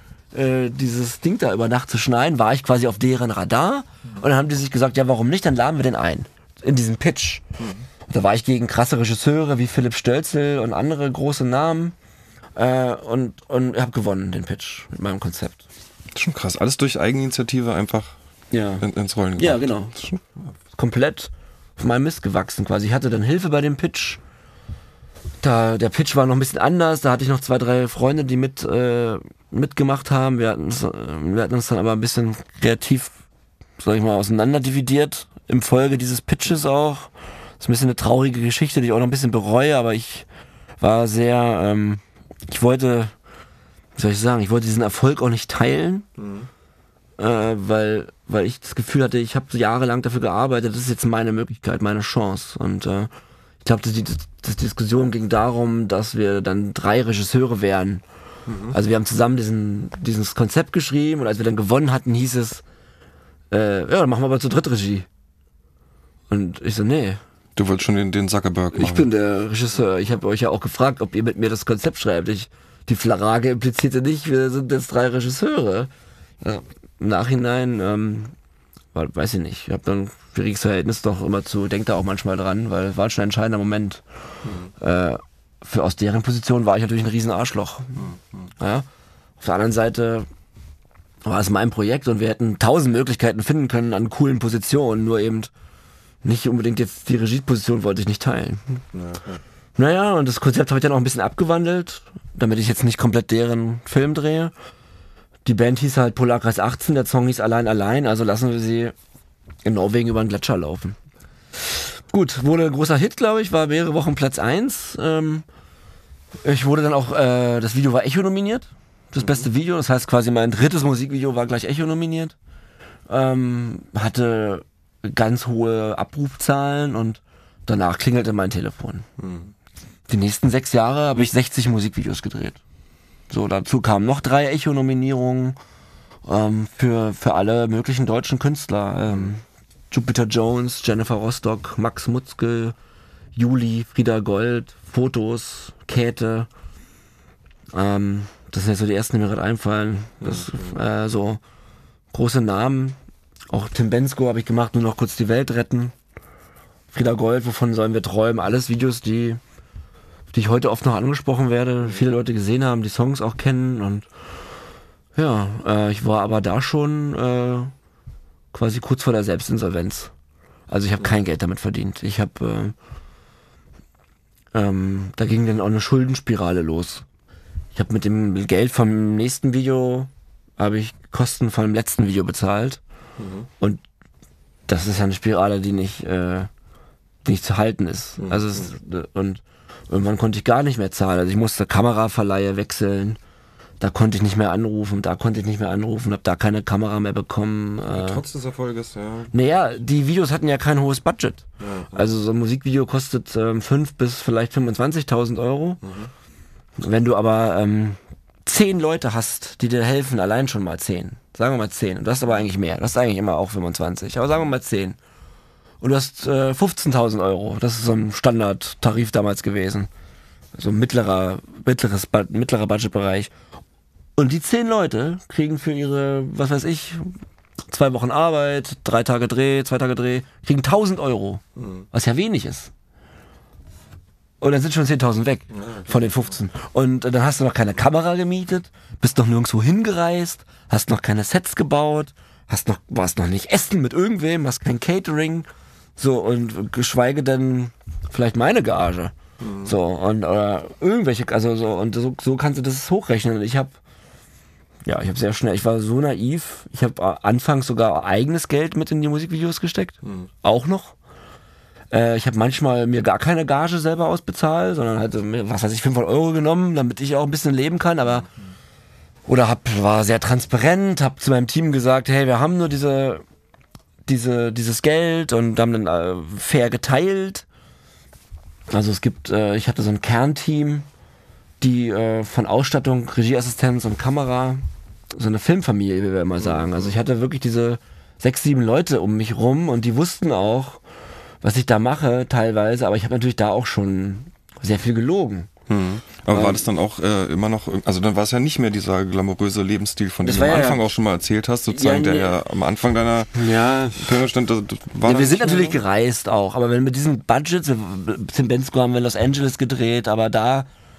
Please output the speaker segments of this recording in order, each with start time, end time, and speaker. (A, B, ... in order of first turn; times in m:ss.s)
0:00.3-0:07.4 A
0:07.6-0:07.8 B
0:08.1-0:12.0 A
0:12.6-0:15.6 A
0:16.1-0:18.2 B
0:18.5-0:18.8 A
0:18.8-0:20.4 B
0:19.4-0:19.9 A
0:20.8-0:24.2 A
0:25.4-0:33.2 A
0:33.8-0:40.3 A
0:40.8-0:43.1 A
0:44.0-0:46.1 A
0:46.2-0:46.5 B
0:47.2-0:53.1 A
0:53.6-0:58.0 A
0:58.5-0:58.8 B
0:58.7-1:02.6 A
1:03.5-1:05.1 A
1:06.3-1:07.2 A
1:07.6-1:09.1 B
1:08.7-1:15.9 A
1:16.4-1:18.4 A
1:18.9-1:24.0 A
1:24.8-1:28.1 A
1:28.6-1:28.9 A
1:29.4-1:30.3 A
1:31.2-1:35.5 A
1:36.2-1:38.8 A
1:38.9-1:39.4 B
1:39.8-1:44.5 A
1:45.4-1:48.9 A
1:49.6-1:51.0 A
1:51.7-1:55.4 A
1:56.4-2:02.4 A
1:59.2-1:59.4 B
2:03.1-2:09.1 A
2:09.2-2:09.5 B
2:10.1-2:12.6 A
2:13.3-2:15.6 A
2:16.2-2:22.8 A
2:23.4-2:26.5 A
2:27.7-2:31.4 A
2:30.2-2:30.7 B
2:32.1-2:33.0 A
2:33.5-2:35.9 A
2:36.9-2:39.4 A
2:40.3-2:44.1 A
2:45.2-2:47.7 A
2:48.5-2:50.1 A
2:50.7-2:52.8 A
2:54.5-2:57.0 A
2:57.7-3:02.8 A
3:03.2-3:03.5 B
3:04.7-3:06.5 A
3:07.2-3:13.2 A
3:08.2-3:08.7 B
3:13.8-3:18.2 A
3:17.9-3:19.4 B
3:19.3-3:25.8 A
3:21.6-3:22.1 B
3:25.8-3:26.1 B
3:26.8-3:35.0 A
3:35.8-3:39.9 A
3:40.6-3:43.3 A
3:44.2-3:52.7 A
3:51.6-3:51.8 B
3:54.4-4:13.8 A
3:55.6-3:55.9 B
4:09.4-4:09.7 B
4:14.8-4:21.0 A
4:21.9-4:28.3 A
4:29.3-4:33.2 A
4:34.1-4:37.4 A
4:38.7-4:40.9 A
4:41.6-4:50.8 A
4:46.4-4:46.9 B
4:51.4-4:55.5 A
4:55.7-5:03.4 B
4:56.3-4:56.6 A
5:00.2-5:00.9 A
5:01.7-5:02.4 A
5:03.4-5:04.2 A
5:04.0-5:05.8 B
5:05.1-5:10.7 A